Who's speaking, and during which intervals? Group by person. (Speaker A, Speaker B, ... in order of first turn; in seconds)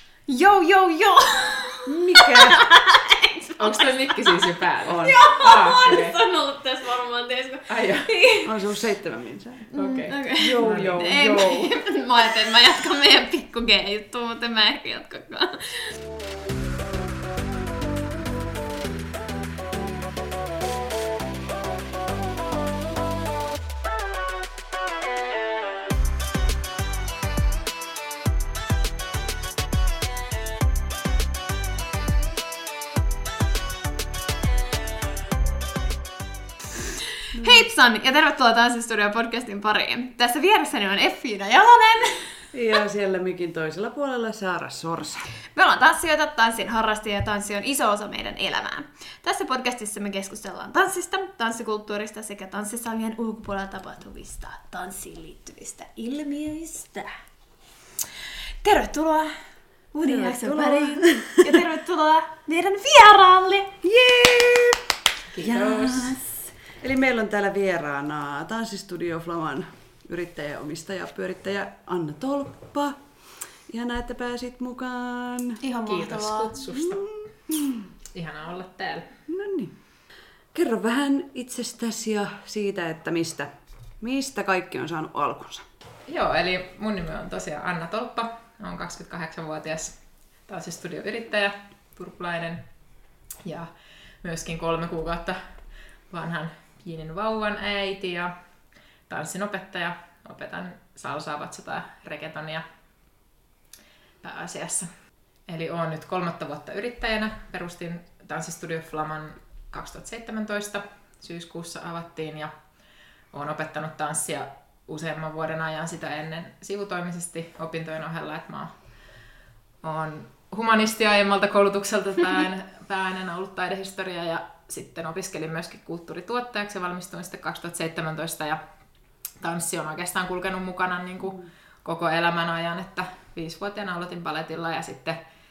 Speaker A: 0.3-8.6, 9.7-16.0, 37.3-42.5, 45.5-57.1, 58.6-59.4, 59.9-63.7, 75.6-76.5
Speaker B: 1.9-2.6, 4.8-5.2, 8.4-9.7, 10.3-11.7, 37.4-37.6, 42.5-45.2, 60.0-61.6, 63.8-64.8, 65.4-75.6, 76.7-77.8, 79.3-79.7, 80.5-85.7
Speaker C: 3.6-6.2, 7.7-8.1, 9.7-11.0, 65.3-66.1, 75.8-77.0, 78.1-79.1, 86.1-92.6, 93.4-93.7, 94.2-95.4, 96.1-98.3, 99.1-102.6, 104.2-104.9, 105.5-112.5, 113.3-118.7, 119.8-128.6, 129.4-135.2